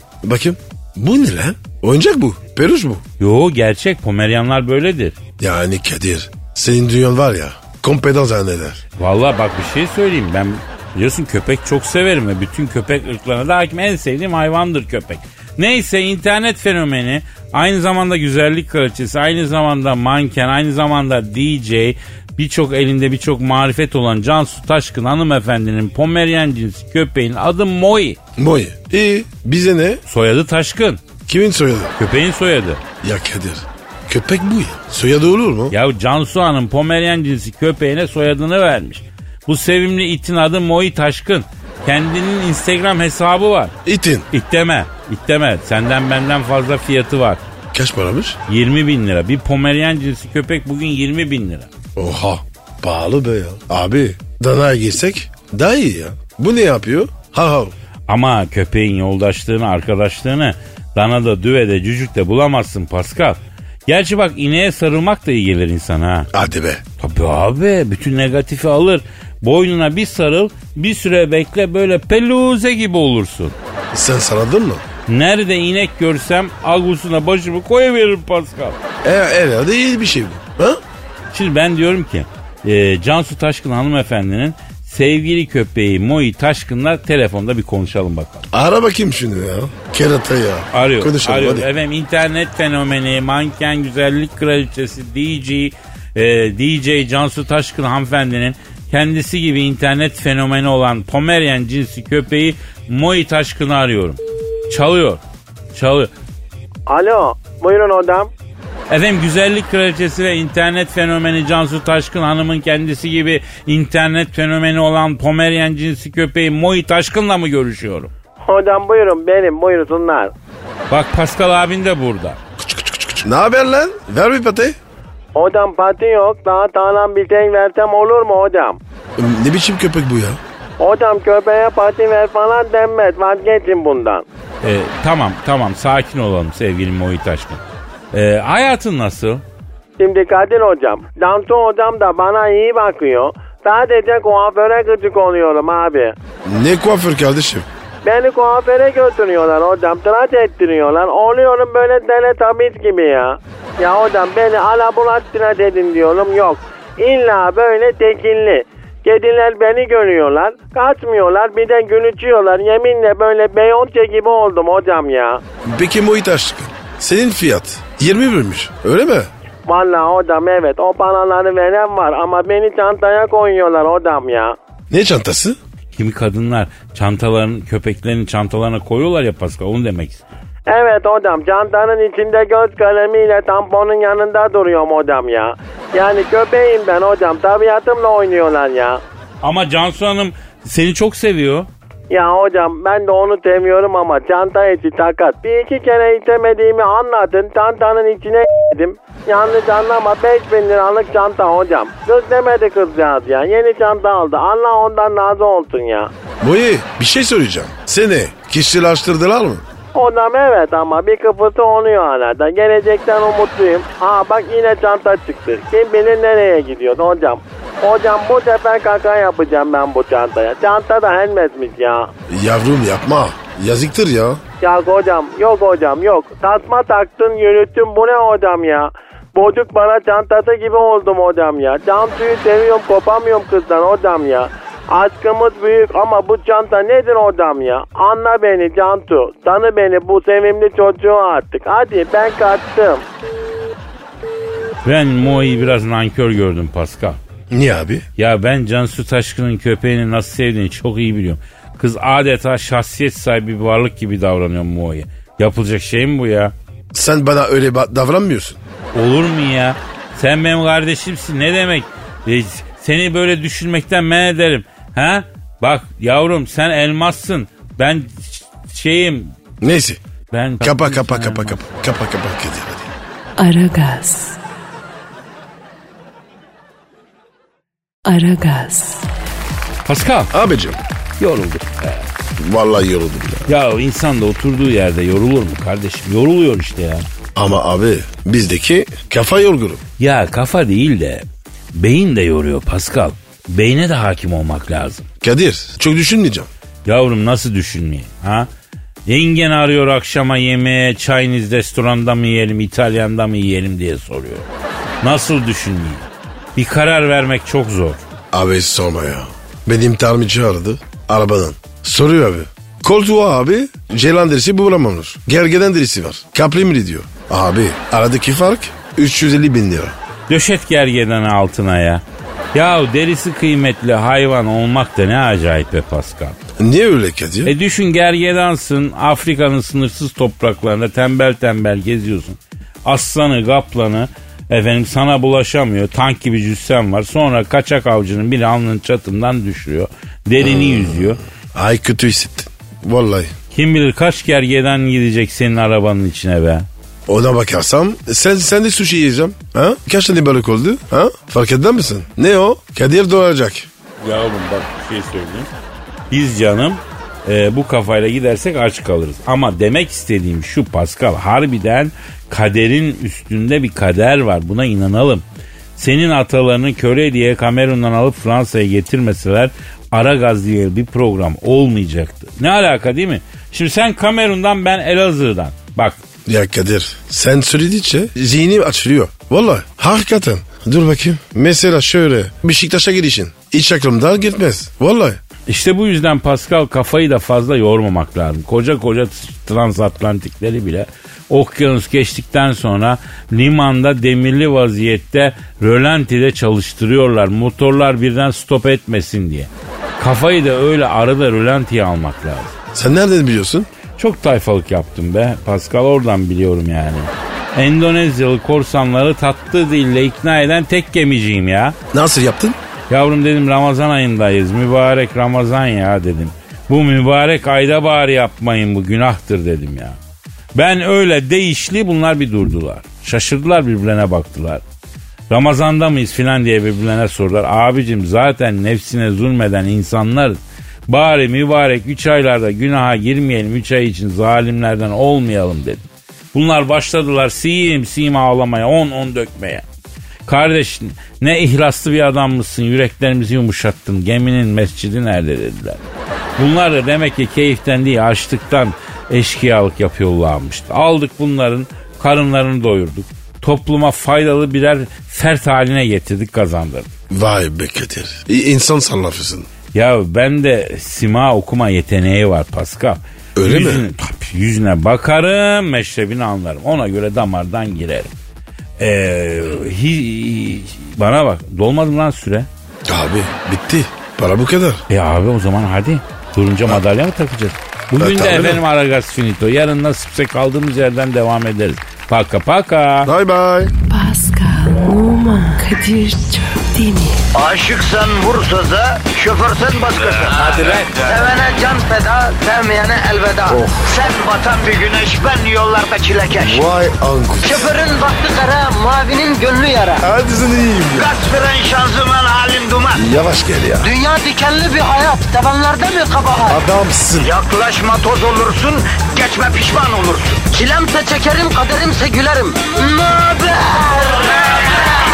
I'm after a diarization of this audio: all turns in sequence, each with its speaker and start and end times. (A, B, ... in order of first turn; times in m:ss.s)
0:00.2-0:03.0 A
0:03.2-0:05.2 B
0:05.4-0:08.8 A
0:09.0-0:28.2 B
0:28.4-0:30.0 A
0:30.1-0:31.0 B
0:31.2-0:31.9 A
0:32.0-0:32.8 B
0:33.0-0:35.7 A
0:35.7-0:43.7 B
0:43.8-0:44.3 A
0:44.3-0:47.4 B
0:47.7-0:48.4 A
0:48.5-0:51.7 B
0:52.0-0:57.7 A
0:58.1-1:06.3 B
1:06.3-1:06.8 A
1:07.0-1:13.5 B
1:13.9-1:14.8 A
1:15.1-1:18.8 B
1:19.0-1:20.8 A
1:21.3-1:28.4 B
1:28.5-1:31.7 A
1:30.7-1:45.2 B
1:45.7-1:46.1 B
1:46.9-1:48.3 C
1:48.9-1:58.1 B
1:58.4-2:00.3 C
2:00.9-2:02.4 B
2:02.6-2:04.8 A
2:05.3-2:08.8 C
2:09.2-2:10.4 A
2:10.8-2:14.2 C
2:14.6-2:19.4 B
2:20.0-2:26.1 C
2:26.4-2:27.7 A
2:28.0-2:45.4 C
2:45.6-2:49.3 A
2:49.7-2:54.6 C
2:54.9-2:55.6 A
2:55.9-3:00.2 B
3:00.7-3:09.0 C
3:09.4-3:11.7 B
3:12.1-3:26.1 C
3:26.4-3:29.6 A
3:29.9-3:42.1 C
3:42.3-3:44.4 A
3:44.6-4:03.1 C
4:04.8-4:07.2 B
4:07.5-4:08.0 A
4:08.2-4:16.5 B
4:16.9-4:18.6 A
4:18.9-4:29.3 B
4:29.6-4:30.0 A
4:30.3-4:31.6 B
4:30.6-4:32.9 A
4:33.4-4:34.4 D
4:38.0-4:39.1 D
4:39.8-4:40.3 B
4:40.3-4:40.8 A
4:41.2-4:42.1 B
4:42.4-4:43.5 A
4:43.5-4:47.1 B
4:47.4-4:49.8 A
4:50.0-4:55.1 B
4:55.2-4:56.5 A
4:56.8-4:58.5 B
4:59.0-5:04.4 B
5:05.0-5:08.0 B
5:08.3-5:19.9 A
5:20.3-5:22.0 B
5:22.5-5:26.4 B
5:26.6-5:27.5 A
5:27.4-5:41.2 B
5:40.4-5:43.3 A
5:43.5-5:46.6 B
5:47.1-5:53.7 A
5:54.0-5:55.5 B
5:56.1-6:05.2 B
6:05.8-6:16.0 B
6:16.2-6:25.2 A
6:25.5-6:42.5 B
6:42.7-6:43.7 A
6:44.0-6:51.8 B
6:51.9-6:52.6 A
6:52.9-7:00.0 B
7:00.6-7:04.6 B
7:05.3-7:19.6 B
7:20.2-7:25.8 B
7:26.4-7:36.9 B
7:37.1-7:39.5 A
7:39.7-7:48.1 B
7:43.4-7:43.9 A
7:48.8-7:52.5 B
7:52.8-7:54.8 A
7:54.9-8:03.1 B
7:58.0-7:58.6 A
8:03.0-8:03.7 A
8:03.9-8:07.2 D
8:07.3-8:16.6 E
8:13.5-8:13.9 A
8:16.4-8:17.7 A
8:17.4-8:20.0 E
8:20.0-8:21.1 A
8:20.9-8:23.0 E
8:22.9-8:23.9 A
8:23.8-8:26.6 E
8:26.5-8:27.3 A
8:27.2-8:34.8 E